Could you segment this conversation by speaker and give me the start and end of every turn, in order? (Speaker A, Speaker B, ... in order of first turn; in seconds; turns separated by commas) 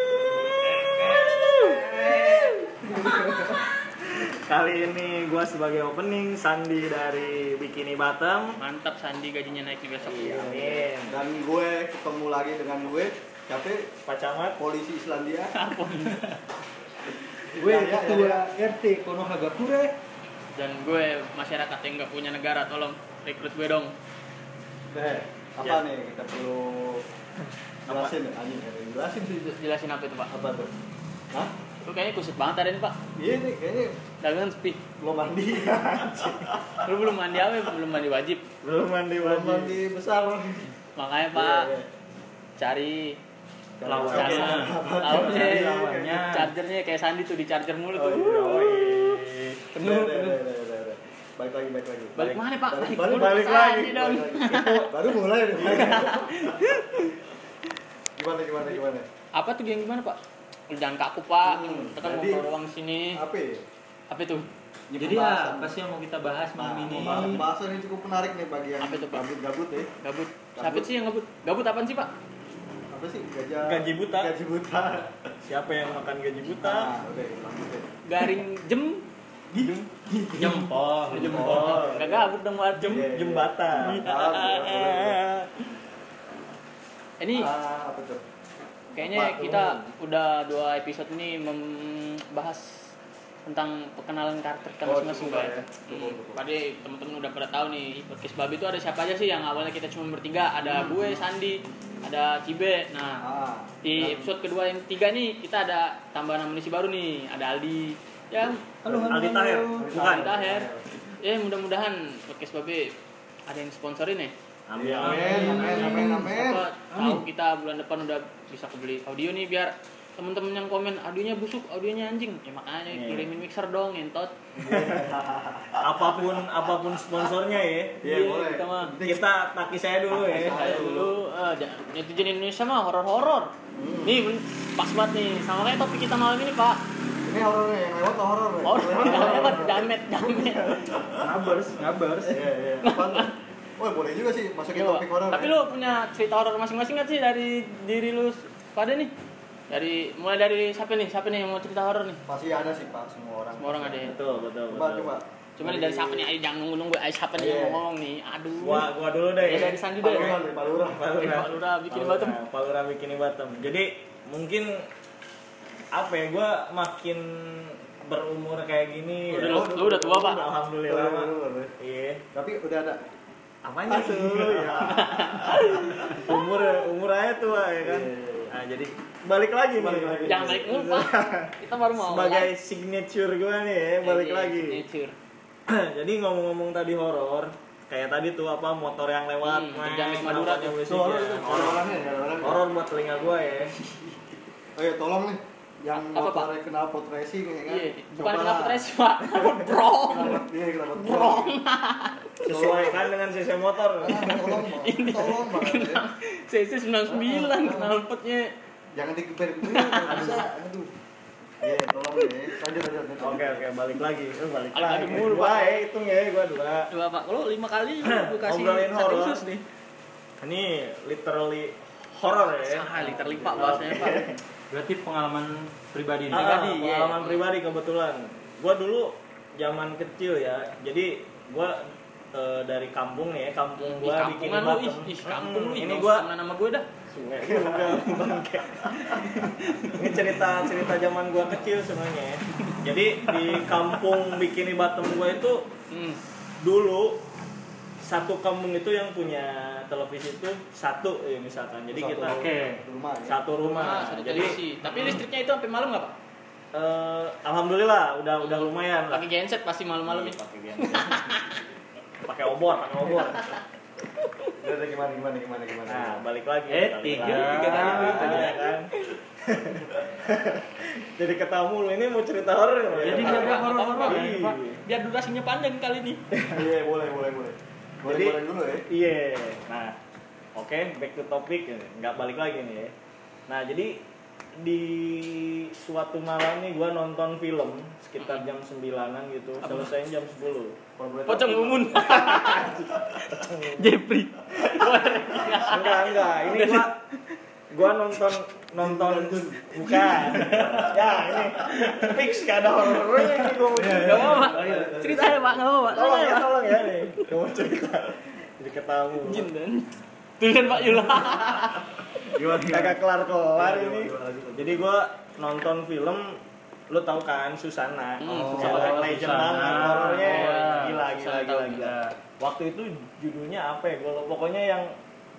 Speaker A: 0.4-3.6, Speaker B: 0.5-8.6, Speaker C: 8.6-10.7, Speaker B: 10.0-11.2, Speaker A: 10.5-13.9, Speaker B: 14.1-14.6, Speaker A: 14.6-15.5, Speaker C: 15.5-16.4, Speaker A: 17.5-18.4, Speaker D: 17.5-19.9, Speaker C: 20.5-23.9, Speaker A: 24.9-27.0, Speaker B: 27.9-28.1, Speaker A: 27.9-29.6, Speaker C: 29.4-30.3, Speaker A: 30.3-30.7, Speaker C: 31.8-33.0, Speaker A: 33.1-34.0, Speaker C: 34.2-34.8, Speaker A: 35.0-36.5, Speaker B: 36.2-36.7, Speaker C: 36.8-38.4, Speaker B: 38.6-39.8, Speaker A: 39.2-40.7, Speaker C: 41.0-41.7, Speaker A: 41.3-41.9, Speaker C: 42.6-43.2, Speaker A: 43.8-46.2, Speaker D: 43.8-44.7, Speaker B: 44.0-44.5, Speaker C: 44.1-48.9, Speaker B: 45.1-46.5, Speaker D: 45.8-46.2, Speaker A: 47.9-49.2, Speaker B: 48.0-49.6, Speaker C: 49.7-50.4, Speaker A: 49.7-56.8, Speaker C: 52.1-54.9, Speaker B: 53.6-54.9, Speaker C: 55.6-57.1, Speaker A: 58.2-59.1, Speaker C: 59.3-60.2, Speaker C: 60.7-63.2, Speaker A: 61.4-62.5, Speaker A: 63.1-63.6, Speaker C: 64.1-64.5, Speaker A: 64.9-65.7, Speaker D: 65.0-67.5, Speaker A: 66.6-69.9, Speaker C: 68.8-69.2, Speaker C: 70.0-72.1, Speaker A: 70.5-70.9, Speaker A: 72.9-75.3, Speaker B: 73.6-74.3, Speaker B: 75.4-76.9, Speaker A: 76.6-77.9, Speaker C: 78.0-79.0, Speaker A: 79.5-85.2, Speaker D: 80.3-81.9, Speaker B: 81.1-82.0, Speaker C: 81.3-83.1, Speaker B: 82.8-85.3, Speaker C: 83.8-84.9, Speaker C: 87.2-87.5, Speaker A: 87.3-88.2, Speaker C: 88.9-92.9, Speaker A: 89.0-89.8, Speaker C: 93.5-103.2, Speaker A: 94.8-96.4, Speaker A: 100.6-101.2, Speaker A: 103.2-104.3, Speaker C: 103.8-108.7, Speaker A: 108.8-111.0, Speaker B: 109.0-110.3, Speaker C: 109.9-110.7, Speaker C: 111.2-112.9, Speaker C: 113.5-114.3, Speaker B: 114.7-116.1, Speaker A: 114.8-117.2, Speaker C: 115.0-124.3, Speaker B: 122.9-123.3, Speaker A: 124.6-126.0, Speaker B: 124.7-125.0, Speaker B: 125.8-128.0, Speaker A: 128.0-129.2, Speaker C: 128.0-128.9, Speaker B: 129.0-130.7, Speaker A: 130.1-131.1, Speaker C: 130.4-133.5, Speaker A: 133.8-134.2, Speaker C: 134.0-136.8, Speaker A: 137.2-141.5, Speaker C: 138.6-140.8, Speaker D: 141.2-142.4, Speaker A: 142.2-145.6, Speaker C: 142.8-143.3, Speaker C: 144.7-149.1, Speaker C: 149.7-152.2, Speaker A: 152.3-156.3, Speaker C: 153.6-154.1, Speaker B: 154.0-155.1, Speaker C: 155.6-158.9, Speaker A: 157.4-157.8, Speaker B: 158.6-164.8, Speaker C: 159.4-160.3, Speaker A: 160.0-161.2, Speaker C: 161.2-162.4, Speaker B: 165.9-172.2, Speaker C: 169.3-170.4, Speaker A: 169.5-171.7, Speaker A: 172.3-173.0, Speaker D: 173.7-174.7, Speaker B: 173.8-184.8, Speaker A: 173.9-176.3, Speaker C: 174.8-176.3, Speaker A: 177.8-178.9, Speaker A: 179.7-180.7, Speaker C: 180.2-182.5, Speaker C: 184.0-185.1, Speaker B: 185.7-191.8, Speaker C: 189.4-190.8, Speaker A: 190.8-192.6, Speaker B: 192.4-193.7, Speaker A: 193.9-194.2, Speaker A: 194.8-198.9, Speaker C: 195.9-196.5, Speaker C: 197.7-200.4, Speaker A: 200.0-201.5, Speaker C: 200.9-202.2, Speaker B: 202.4-204.2, Speaker A: 202.4-203.1, Speaker A: 204.0-206.0, Speaker C: 204.1-208.5, Speaker A: 207.1-207.9, Speaker A: 208.9-210.9, Speaker C: 209.6-210.4, Speaker B: 210.1-210.4, Speaker A: 211.6-213.6, Speaker B: 213.2-216.9, Speaker C: 214.7-215.8, Speaker C: 216.9-219.6, Speaker B: 218.0-219.4, Speaker B: 220.4-224.4, Speaker C: 222.5-224.3, Speaker A: 223.0-223.7, Speaker D: 224.7-226.5, Speaker B: 226.3-236.3, Speaker C: 226.3-227.4, Speaker C: 233.8-236.9, Speaker B: 237.1-245.6, Speaker A: 237.9-238.2, Speaker C: 239.0-240.6, Speaker C: 243.3-243.8, Speaker C: 245.9-246.2, Speaker B: 246.6-247.2, Speaker B: 248.0-252.4, Speaker A: 251.9-253.4, Speaker D: 252.3-252.8, Speaker B: 253.2-255.2, Speaker C: 253.8-256.1, Speaker B: 256.7-259.2, Speaker C: 258.4-261.6, Speaker B: 260.1-261.4, Speaker B: 262.2-263.6, Speaker A: 264.6-266.2, Speaker B: 265.9-268.9, Speaker D: 266.7-268.6, Speaker C: 267.2-269.1, Speaker A: 267.9-268.4, Speaker B: 269.4-274.8, Speaker A: 272.9-273.4, Speaker D: 272.9-274.3, Speaker C: 273.1-276.2, Speaker B: 276.3-276.6, Speaker A: 276.5-278.9, Speaker B: 278.0-278.4, Speaker B: 278.9-279.9, Speaker B: 280.6-282.9, Speaker B: 283.5-284.0, Speaker B: 284.6-290.8, Speaker C: 289.6-289.9, Speaker A: 291.0-292.5, Speaker C: 291.3-297.0, Speaker B: 292.5-293.9, Speaker B: 294.6-296.9, Speaker B: 297.7-304.9, Speaker A: 298.8-301.9, Speaker A: 303.7-305.8, Speaker C: 303.9-307.3, Speaker B: 305.9-309.5, Speaker C: 309.2-311.8, Speaker A: 312.3-313.0, Speaker B: 312.6-316.4, Speaker A: 313.5-314.9, Speaker B: 316.9-324.9, Speaker C: 318.2-319.0, Speaker A: 318.2-318.9, Speaker D: 318.6-320.9, Speaker A: 319.6-320.1, Speaker C: 320.0-321.9, Speaker D: 321.7-322.1